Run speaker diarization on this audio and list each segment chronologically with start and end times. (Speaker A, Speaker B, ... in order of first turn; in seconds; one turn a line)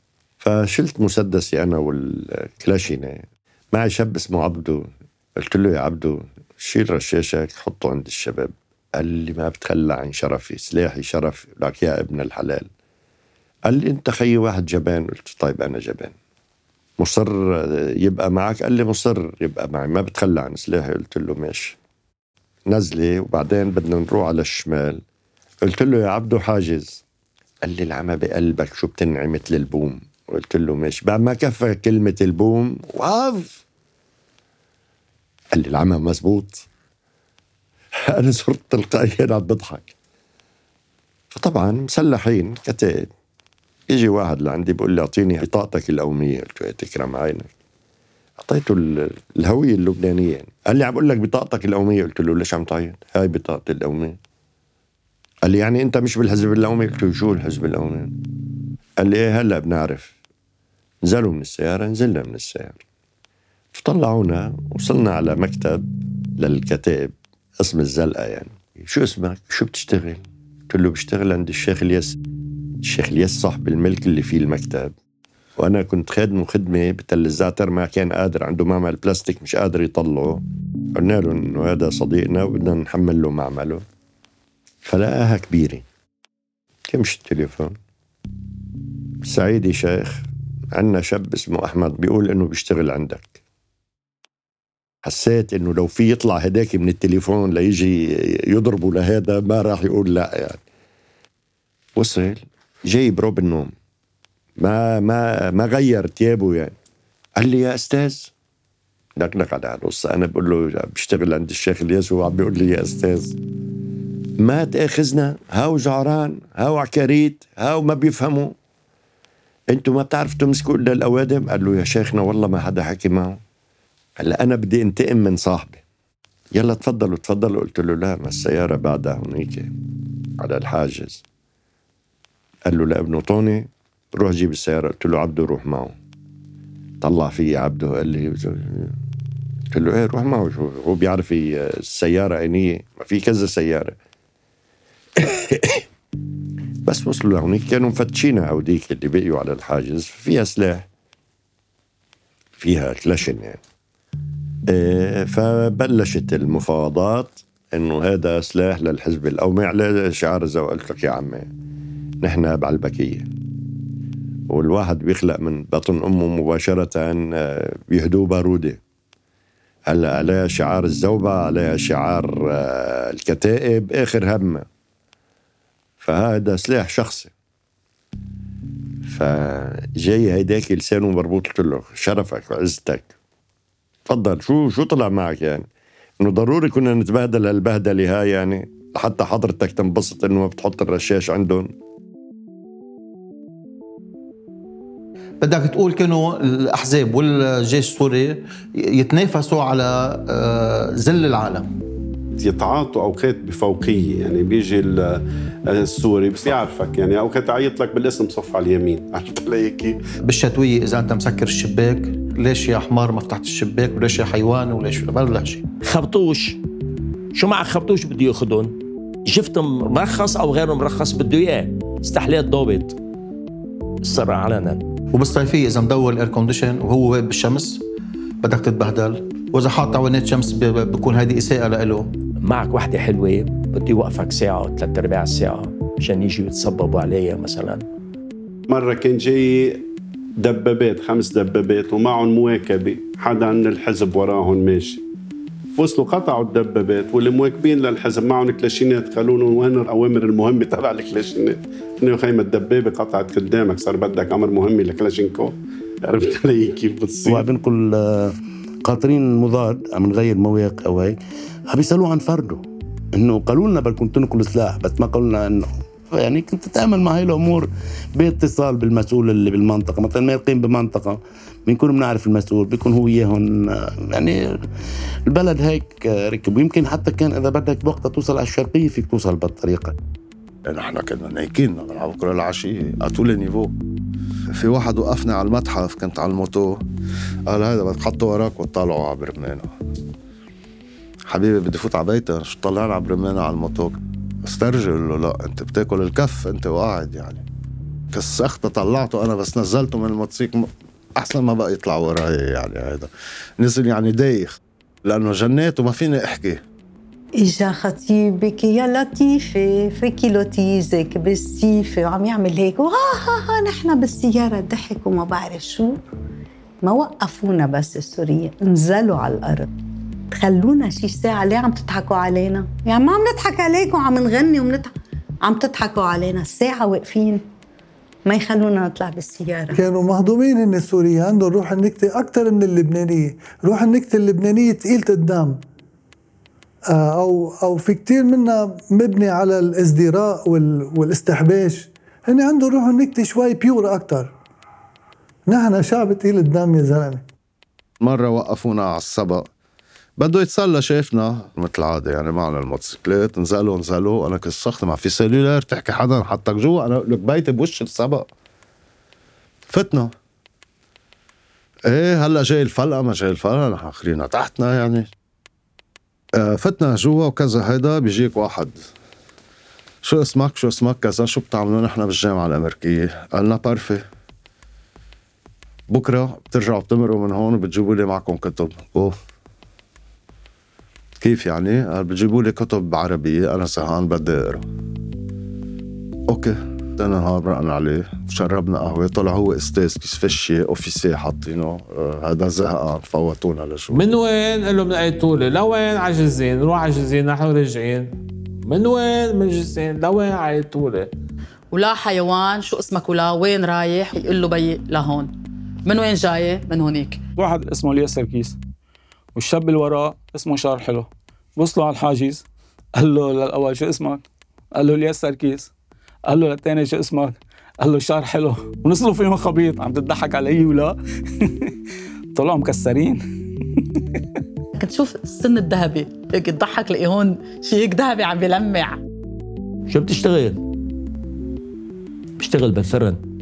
Speaker A: 0.4-12.7
Speaker A: 13.7-16.1
Speaker A: 17.0-21.8
Speaker A: 22.7-25.0
Speaker A: 25.6-27.0
Speaker A: 27.6-33.6
Speaker A: 35.5-36.6
Speaker A: 38.1-39.9
Speaker A: 41.3-43.1
Speaker A: 43.9-47.5
Speaker A: 48.4-54.2
Speaker A: 55.5-58.1
Speaker A: 59.0-60.1
Speaker A: 61.0-62.8
Speaker A: 63.7-65.9
Speaker A: 66.4-72.2
Speaker A: 72.8-74.9
Speaker A: 75.6-80.4
Speaker A: 81.0-83.8
Speaker A: 84.8-85.8
Speaker A: 86.9-87.8
Speaker A: 89.3-93.4
Speaker A: 95.0-100.6
Speaker A: 102.0-103.7
Speaker A: 104.6-106.7
Speaker A: 107.4-108.3
Speaker A: 109.2-113.4
Speaker A: 114.4-118.5
Speaker A: 119.7-123.4
Speaker A: 124.2-125.8
Speaker A: 126.5-129.7
Speaker A: 130.4-131.2
Speaker A: 132.7-135.9
Speaker A: 137.0-138.9
Speaker A: 139.7-143.9
Speaker A: 145.2-145.8
Speaker A: 146.9-150.8
Speaker A: 152.6-153.6
Speaker A: 154.7-161.5
Speaker A: 162.2-163.3
Speaker A: 164.5-168.8
Speaker A: 169.9-174.7
Speaker A: 176.0-177.3
Speaker A: 179.1-183.1
Speaker A: 184.1-185.7
Speaker A: 186.2-191.7
Speaker B: 195.4-201.7
Speaker C: 202.4-210.0
Speaker B: 210.2-215.6
Speaker D: 215.9-216.6
Speaker D: 217.3-218.7
Speaker D: 219.3-223.0
Speaker D: 224.0-224.8
Speaker B: 225.1-227.8
Speaker B: 228.4-232.1
Speaker D: 232.4-237.8
Speaker C: 238.7-239.8
Speaker C: 240.4-245.0
Speaker C: 245.8-255.5
Speaker C: 256.1-257.4
Speaker E: 257.2-258.3
Speaker E: 258.9-261.2
Speaker E: 261.7-262.6
Speaker E: 263.2-274.6
Speaker E: 275.3-279.9
Speaker F: 280.7-283.7
Speaker F: 284.5-286.8
Speaker F: 287.5-289.7
Speaker F: 291.3-297.4
Speaker F: 298.1-303.1
Speaker F: 303.6-306.6
Speaker G: 307.4-316.0
Speaker G: 316.8-319.7
Speaker G: 320.3-324.9
Speaker G: 325.4-327.4
Speaker G: 328.3-329.8
Speaker H: 329.7-335.6
Speaker H: 336.9-344.3
Speaker H: 345.5-347.2
Speaker F: 348.0-349.4
Speaker F: 350.2-358.3
Speaker F: 359.7-360.1
Speaker F: 361.9-365.1
Speaker F: 366.4-368.8
Speaker F: 370.0-374.0
Speaker F: 375.9-379.1
Speaker F: 381.2-384.6
Speaker F: 386.3-394.0
Speaker I: 393.9-398.1
Speaker I: 398.6-401.1
Speaker J: 401.7-405.3
Speaker J: 405.9-407.2
Speaker K: 407.4-408.6
Speaker K: 409.4-412.4
Speaker K: 413.0-415.7
Speaker K: 416.3-421.5
Speaker K: 422.4-423.2
Speaker J: 424.8-429.0
Speaker D: 429.9-430.6
Speaker D: 432.4-433.2